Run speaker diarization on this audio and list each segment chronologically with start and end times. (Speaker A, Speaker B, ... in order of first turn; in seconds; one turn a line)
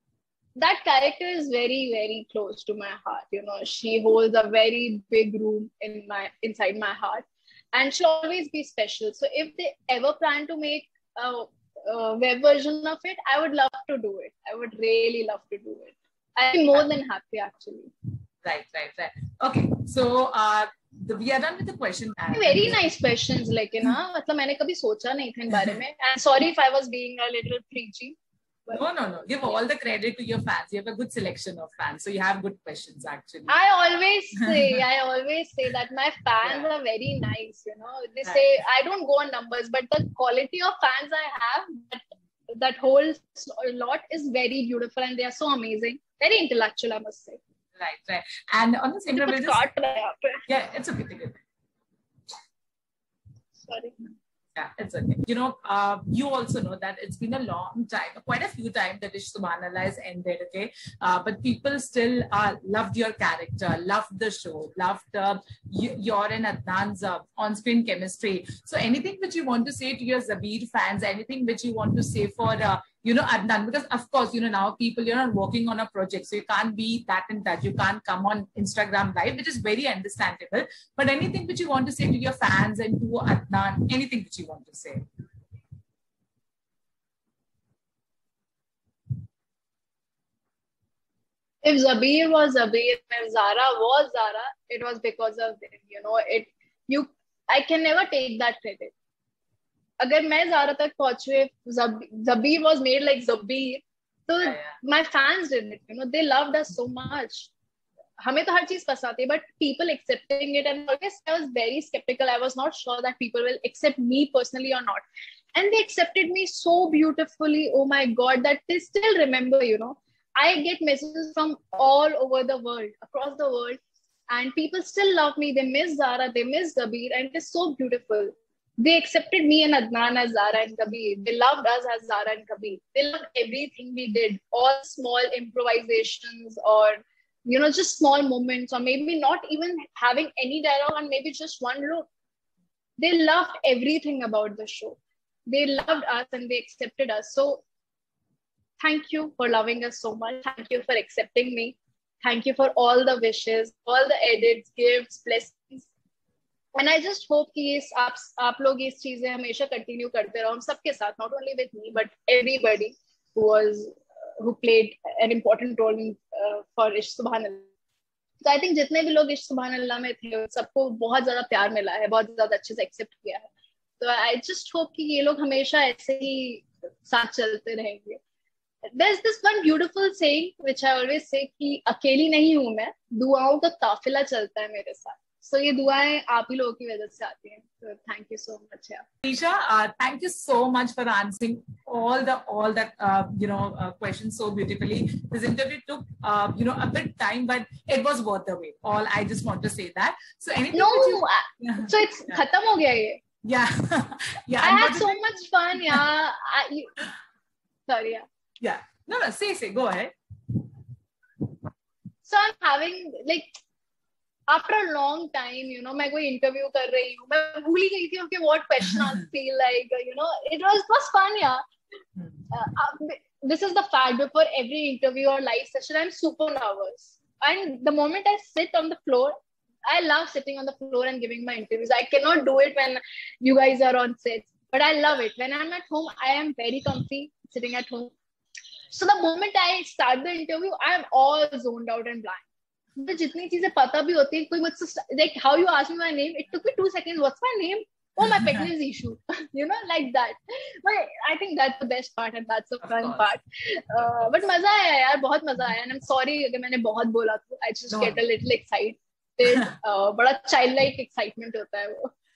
Speaker A: 0.6-17.9
Speaker B: 18.4-22.9
Speaker A: 22.3-28.1
Speaker B: 28.7-33.5
Speaker A: 33.5-47.4
Speaker B: 34.4-34.8
Speaker B: 47.8-49.6
Speaker A: 49.2-50.4
Speaker B: 50.5-51.4
Speaker A: 53.6-54.0
Speaker B: 54.5-85.0
Speaker A: 91.6-98.9
Speaker A: 100.0-107.5
Speaker A: 108.2-115.0
Speaker A: 115.5-142.1
Speaker A: 143.0-147.6
Speaker A: 148.8-155.9
Speaker A: 156.8-167.7
Speaker A: 168.4-178.2
Speaker A: 178.9-189.0
Speaker B: 189.2-202.4
Speaker A: 200.7-203.2
Speaker B: 203.4-205.1
Speaker A: 204.6-207.0
Speaker A: 207.9-208.2
Speaker B: 208.6-210.1
Speaker A: 212.2-213.5
Speaker A: 214.5-221.6
Speaker A: 222.5-238.1
Speaker A: 238.9-242.4
Speaker A: 243.0-262.1
Speaker B: 252.8-253.3
Speaker B: 257.9-258.2